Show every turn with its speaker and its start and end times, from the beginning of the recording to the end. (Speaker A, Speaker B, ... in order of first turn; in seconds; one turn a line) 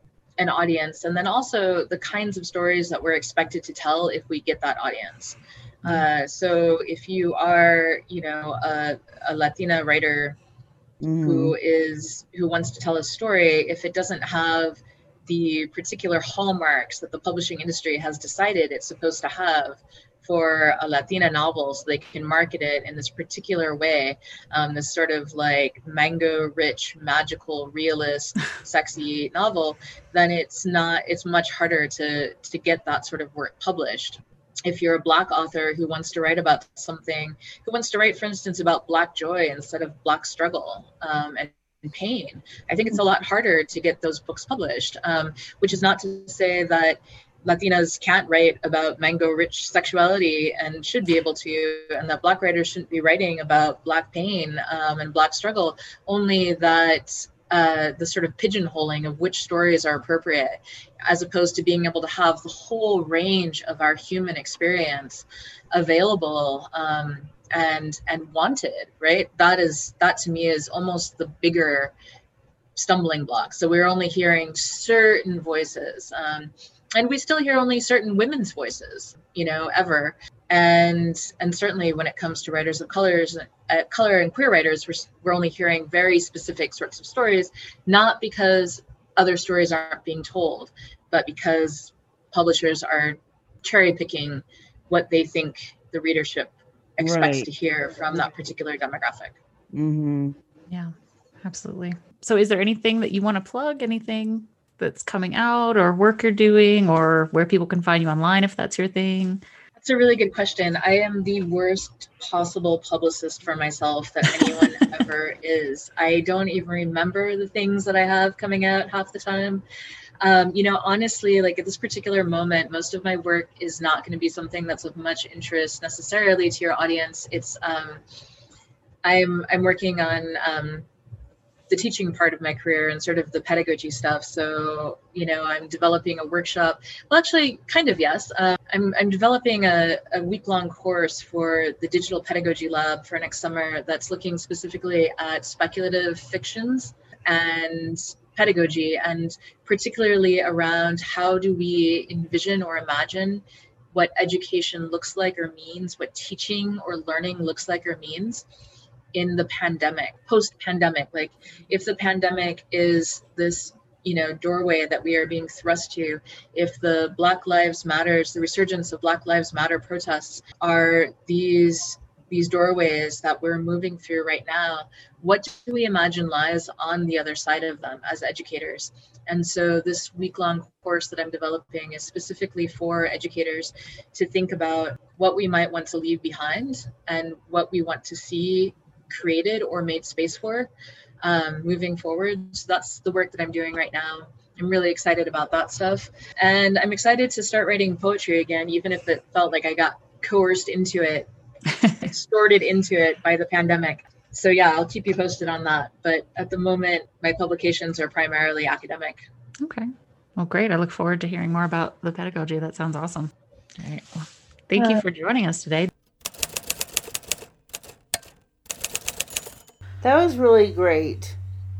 Speaker A: 0.4-10.4
Speaker B: 11.0-11.6
Speaker A: 11.2-71.9
Speaker A: 72.7-99.4
Speaker B: 97.0-97.5
Speaker B: 99.7-100.3
Speaker C: 101.4-109.4
Speaker A: 109.8-119.6
Speaker A: 120.2-128.0
Speaker A: 129.0-130.9
Speaker A: 131.7-158.4
Speaker A: 159.1-190.7
Speaker A: 191.2-201.3
Speaker C: 201.7-202.1
Speaker A: 202.0-209.2
Speaker C: 209.6-215.9
Speaker B: 220.0-221.4